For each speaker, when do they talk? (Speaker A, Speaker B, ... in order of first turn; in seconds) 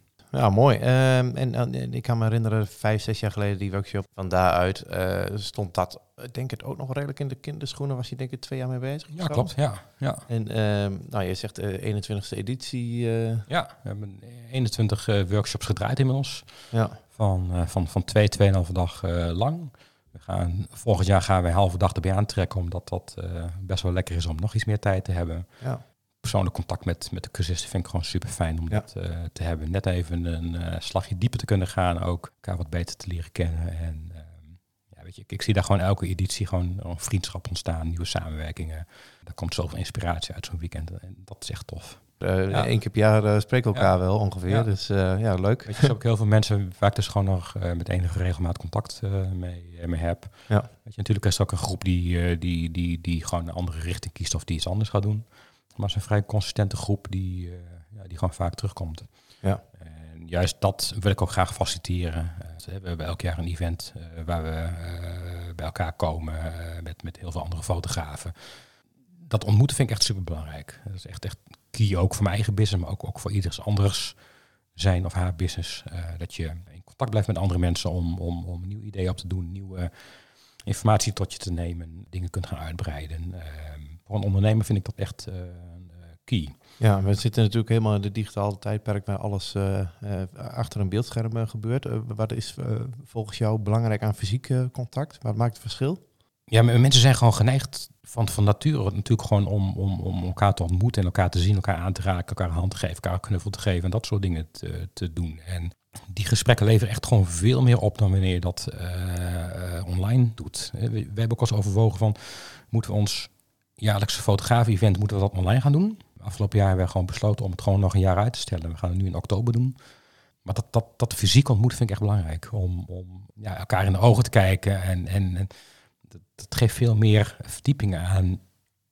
Speaker A: 0.3-9.6, 10.3-13.4, 16.7-17.0, 42.2-45.9, 86.8-96.0
Speaker B: 9.1-10.2, 13.5-25.5, 26.2-42.8, 43.7-44.7, 45.6-68.7, 69.2-74.2, 74.7-86.6, 96.5-119.8, 120.4-125.5, 126.0-128.4